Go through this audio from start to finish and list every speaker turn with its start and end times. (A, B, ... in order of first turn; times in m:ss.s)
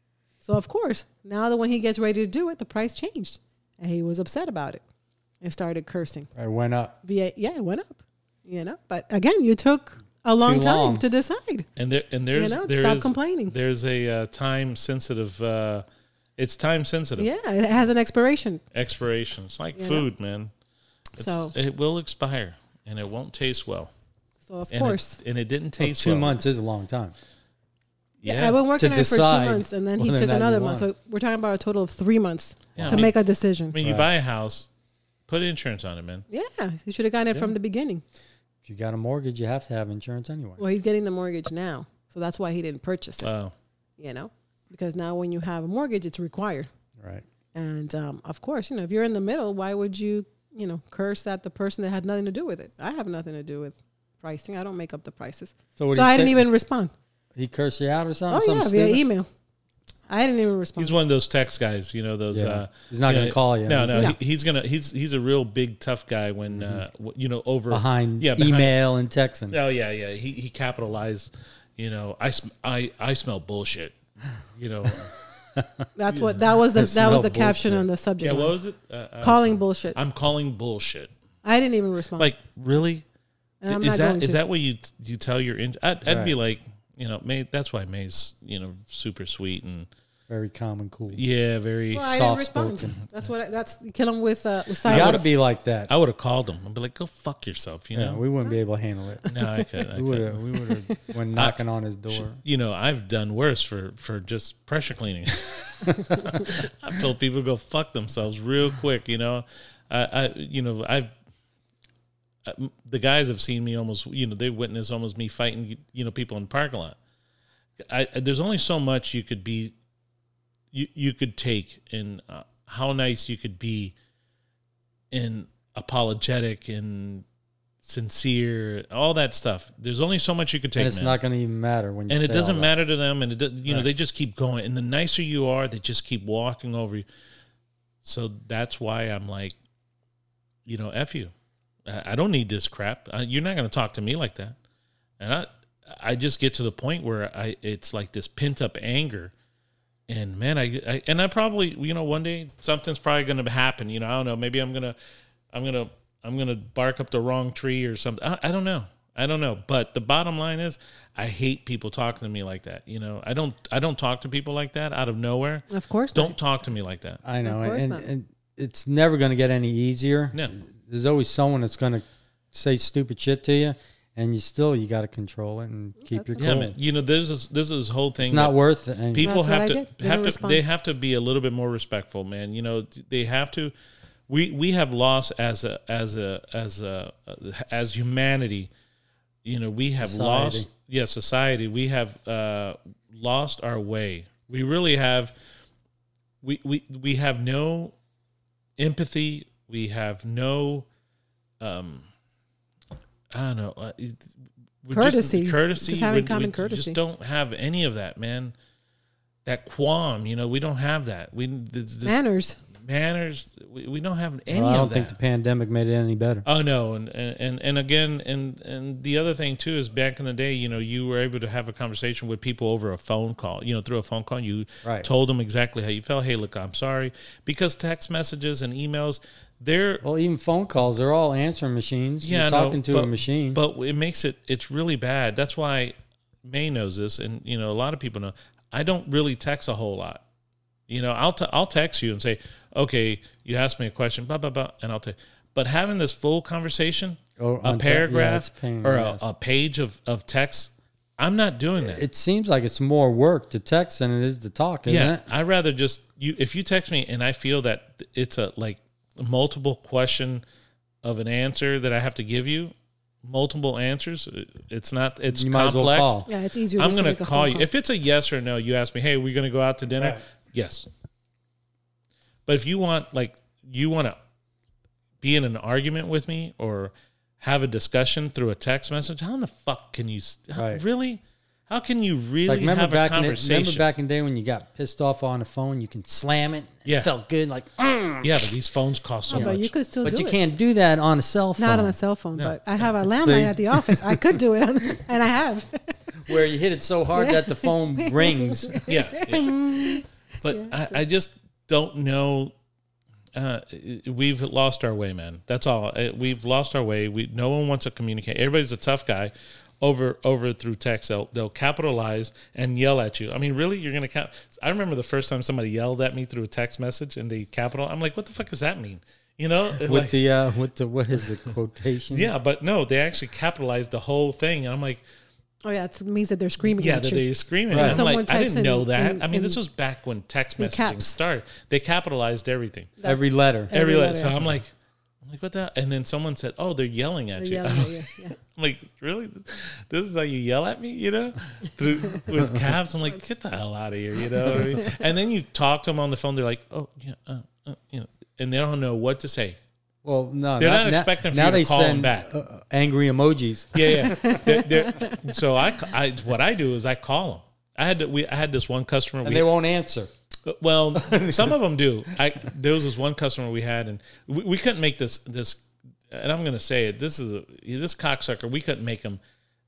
0:00.4-0:04.8 A
0:05.4-0:06.3 A
0:06.3-0:06.9 B
0:07.0-0:11.7 A
0:10.4-0:11.0 B
0:11.8-0:15.8 C
0:12.3-0:13.5 A
0:16.4-0:17.3 C
0:17.2-0:18.6 A
0:18.7-0:20.5 C
0:19.8-0:20.0 A
0:21.2-0:23.9 C
0:21.2-0:21.5 A
0:24.4-0:25.2 A
0:24.7-0:26.4 C
0:25.8-0:27.1 B
0:28.2-0:28.6 C
0:28.2-0:33.8 A
0:28.8-0:30.9 B
0:32.8-0:33.1 C
0:32.8-0:33.1 B
0:33.7-0:34.7 C
0:33.8-0:34.1 B
0:35.3-0:36.2 C
0:36.3-0:38.0 A
0:38.6-0:40.6 B
0:40.6-0:43.3 A
0:43.2-0:43.5 C
0:44.0-0:46.7 A
0:47.0-0:47.2 B
0:47.5-0:56.9 A
0:55.8-0:56.4 B
0:57.3-0:59.0 B
0:58.3-0:59.3 A
1:00.1-1:00.9 A
1:00.8-1:08.7 C
1:02.3-1:04.1 B
1:06.5-1:06.8 B
1:07.7-1:09.6 B
1:09.5-1:14.0 C
1:14.5-1:15.2 C
1:15.5-1:15.8 B
1:16.0-1:18.5 A
1:16.1-1:16.4 C
1:16.7-1:17.9 B
1:18.2-1:21.1 C
1:19.2-1:20.0 A
1:21.4-1:22.3 A
1:22.2-1:23.0 C
1:23.6-1:24.4 A
1:23.7-1:29.9 C
1:26.0-1:26.3 B
1:30.3-1:31.2 B
1:31.1-1:32.2 C
1:31.9-1:35.2 A
1:32.0-1:33.0 B
1:34.8-1:35.3 C
1:34.8-1:35.9 B
1:35.9-1:38.2 C
1:37.9-1:39.3 B
1:39.3-1:40.4 C
1:39.9-1:42.4 B
1:42.1-1:51.1 C
1:52.4-1:57.0 C
1:57.9-1:59.7 C
2:00.7-2:03.9 C
2:05.1-2:07.2 C
2:07.8-2:11.2 C
2:10.8-2:12.7 B
2:12.1-2:17.0 C
2:18.0-2:19.5 C
2:20.6-2:21.3 C
2:21.8-2:24.6 C
2:25.2-2:29.3 C
2:30.1-2:35.0 C
2:35.5-2:47.2 C
2:45.7-2:46.3 A
2:47.2-2:56.7 B
2:47.4-2:48.0 A
2:56.0-2:56.4 A
2:56.4-2:58.5 C
2:58.2-2:59.3 B
2:59.1-3:03.7 C
2:59.2-3:00.6 A
3:04.3-3:08.7 C
3:09.4-3:15.3 C
3:09.9-3:10.7 B
3:16.4-3:17.9 C
3:18.8-3:20.8 C
3:21.6-3:22.0 C
3:23.3-3:24.3 C
3:24.8-3:28.5 C
3:24.9-3:27.0 A
3:29.4-3:32.2 C
3:32.0-3:32.6 A
3:32.7-3:35.2 C
3:34.5-3:36.4 B
3:36.4-3:50.0 C
3:50.0-3:53.6 B
3:52.2-4:00.2 C
4:00.9-4:12.0 C
4:07.4-4:09.2 B
4:11.8-4:15.2 B
4:14.9-4:20.4 C
4:21.0-4:22.7 C
4:23.2-4:30.9 C
4:25.3-4:26.3 B
4:26.3-4:27.7 A
4:32.4-4:34.2 C
4:35.2-4:43.8 C
4:40.6-4:40.8 B
4:42.4-4:48.4 B
4:46.8-4:47.1 C
4:48.2-4:49.7 C
4:49.3-4:50.4 A
4:49.3-4:54.2 B
4:51.6-4:56.0 A
4:56.2-4:59.6 B
4:57.1-5:00.8 A
4:58.9-5:02.5 C
5:03.3-5:20.1 C
5:19.8-5:22.4 B
5:22.1-5:25.0 C
5:25.6-5:29.6 A
5:26.6-5:32.9 C
5:27.7-5:28.0 B
5:30.6-5:31.2 A
5:33.0-5:34.3 A
5:33.0-5:33.7 B
5:33.7-5:34.7 C
5:35.2-5:49.6 C
5:37.4-5:38.4 A
5:42.3-5:42.6 B
5:44.6-5:45.0 A
5:50.0-5:54.6 B
5:50.6-5:52.3 C
5:53.7-5:59.4 C
5:54.1-5:55.2 A
5:59.2-6:00.1 B
6:00.4-6:09.2 C
6:00.9-6:01.6 B